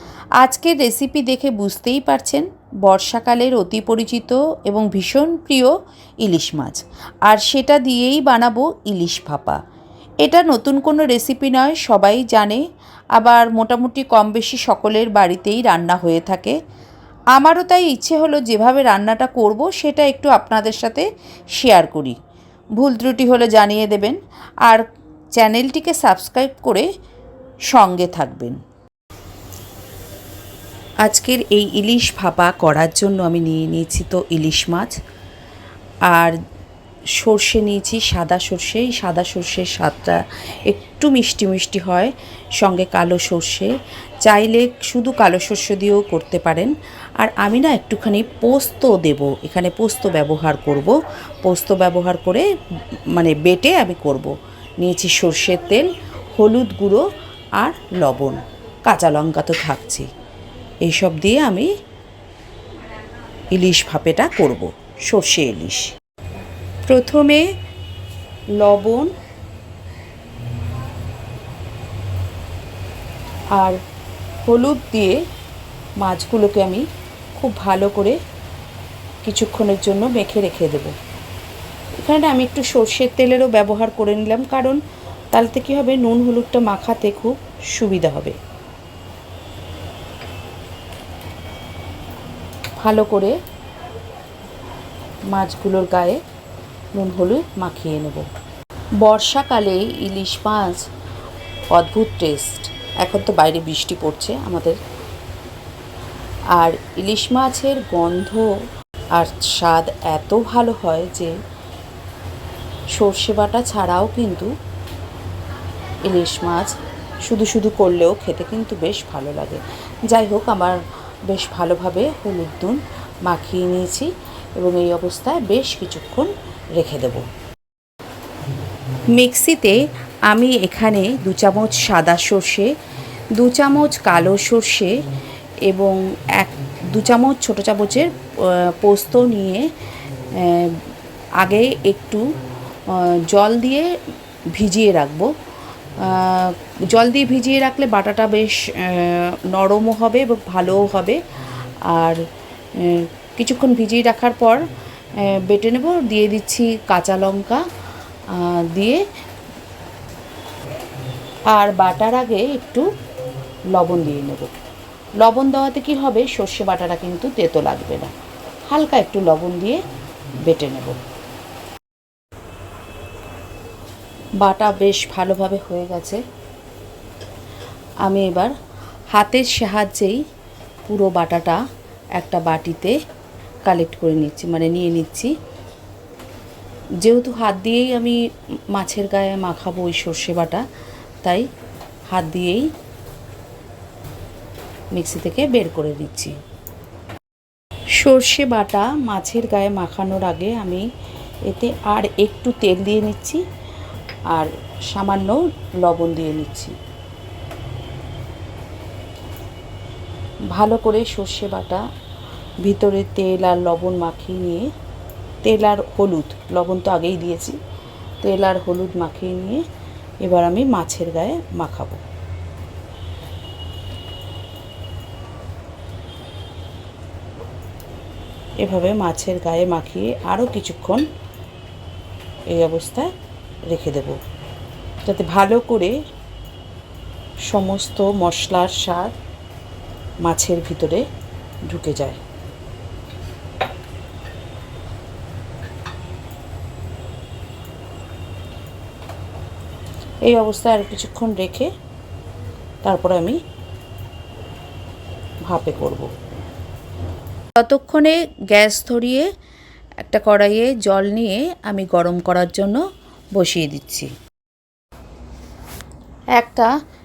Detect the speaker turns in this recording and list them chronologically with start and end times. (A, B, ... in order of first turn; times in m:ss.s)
0:00.4-0:09.6 A
0:10.2-0:12.6 A
0:13.1-0:16.6 A
0:17.3-0:22.2 A
0:22.8-0:24.8 A
0:25.4-0:26.9 A
0:27.7-0:28.6 A
0:31.0-0:35.0 A
0:36.1-0:36.4 A
0:37.1-0:52.4 A
0:53.1-0:57.0 A
0:57.6-1:00.1 A
1:00.8-1:01.7 A
1:03.5-1:05.9 A
1:06.9-1:07.4 A
1:08.6-1:09.1 A
1:14.4-1:15.2 A
1:16.0-1:18.2 A
1:19.2-1:20.9 A
1:22.0-1:24.8 A
1:25.3-1:28.4 A
1:32.8-1:33.4 A
1:35.3-1:36.2 A
1:36.9-1:38.2 A
1:39.0-1:40.8 A
1:41.7-1:44.8 A
1:46.5-1:48.6 A
1:49.1-1:51.3 A
1:52.9-1:54.5 A
1:56.0-1:56.7 A
1:57.2-2:07.2 A
2:09.1-2:12.7 A
2:13.3-2:15.0 A
2:15.7-2:19.7 A
2:20.3-2:20.8 A
2:21.4-2:22.2 A
2:22.9-2:23.9 A
2:24.5-2:25.3 A
2:26.0-2:31.2 A
2:31.8-2:32.2 A
2:32.8-2:34.6 A
2:35.2-2:37.6 A
2:38.3-2:39.0 A
2:41.5-2:42.9 A
2:43.7-2:44.5 A
2:45.2-2:48.1 A
2:48.7-2:49.8 A
2:50.4-2:51.0 A
2:54.4-2:56.2 A
2:58.0-2:58.5 A
2:59.1-3:00.2 A
3:00.8-3:01.6 A
3:02.2-3:02.9 A
3:03.6-3:05.3 A
3:07.0-3:08.2 A
3:08.7-3:10.6 A
3:12.1-3:12.7 A
3:14.9-3:16.3 A
3:18.0-3:20.8 A
3:21.5-3:23.4 A
3:24.3-3:26.7 A
3:30.5-3:31.8 A
3:32.6-3:34.7 A
3:35.4-3:37.6 A
3:38.2-3:39.6 A
3:40.2-3:42.0 A
3:48.6-3:51.0 A
3:52.5-3:53.1 A
3:53.7-3:54.2 A
3:55.0-3:56.0 A
3:57.5-3:59.1 A
4:00.2-4:01.0 A
4:01.7-4:02.2 A
4:10.2-4:11.7 A
4:12.8-4:13.4 A
4:15.4-4:16.1 A
4:17.6-4:19.3 A
4:20.0-4:22.8 A
4:23.4-4:24.1 A
4:26.4-4:26.7 A